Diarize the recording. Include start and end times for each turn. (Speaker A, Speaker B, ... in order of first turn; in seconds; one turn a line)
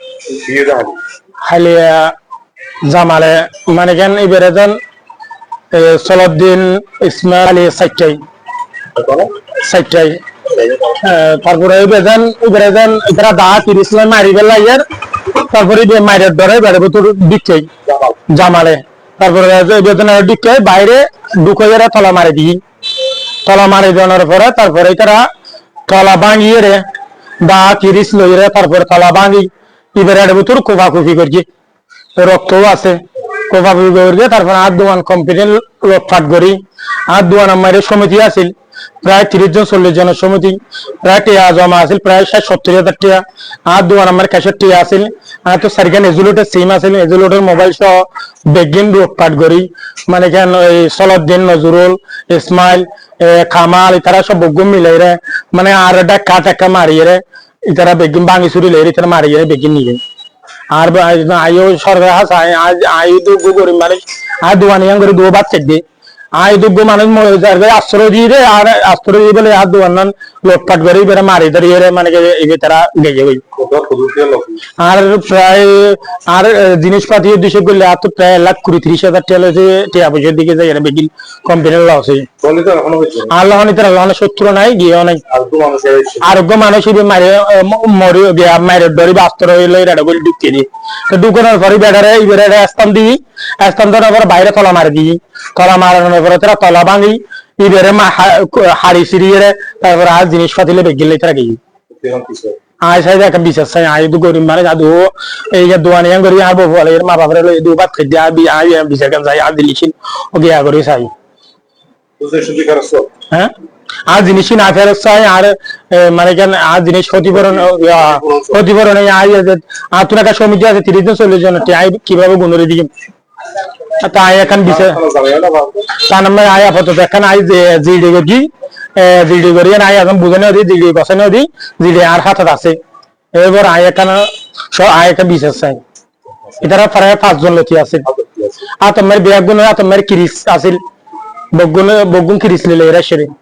Speaker A: 0.3-1.0
Speaker B: 1.4-2.1
Speaker B: 2.8-4.8
Speaker B: 5.7-8.2
Speaker A: 8.9-9.3
Speaker B: 9.5-10.2
Speaker B: 10.8-14.8
Speaker B: 15.3-17.7
Speaker A: 17.9-18.2
Speaker B: 18.3-22.6
Speaker B: 23.4-25.3
Speaker B: 25.9-26.8
Speaker B: 27.4-31.4
Speaker B: 32.1-60.0
Speaker B: 60.7-73.4
Speaker A: 73.5-74.6
Speaker B: 74.8-82.3
Speaker A: 82.4-83.3
Speaker B: 83.3-85.2
Speaker A: 85.3-86.3
Speaker B: 86.2-101.6
Speaker A: 101.9-102.6
Speaker B: 102.8-111.1
Speaker A: 112.2-113.1
Speaker B: 114.1-122.9
Speaker A: 117.3-118.6
Speaker B: 124.0-125.0
Speaker A: 124.4-125.9
Speaker B: 126.0-132.8
Speaker B: 133.3-135.8
Speaker B: 136.6-138.1
Speaker A: 138.0-138.6
Speaker B: 138.8-140.8
Speaker B: 141.5-143.3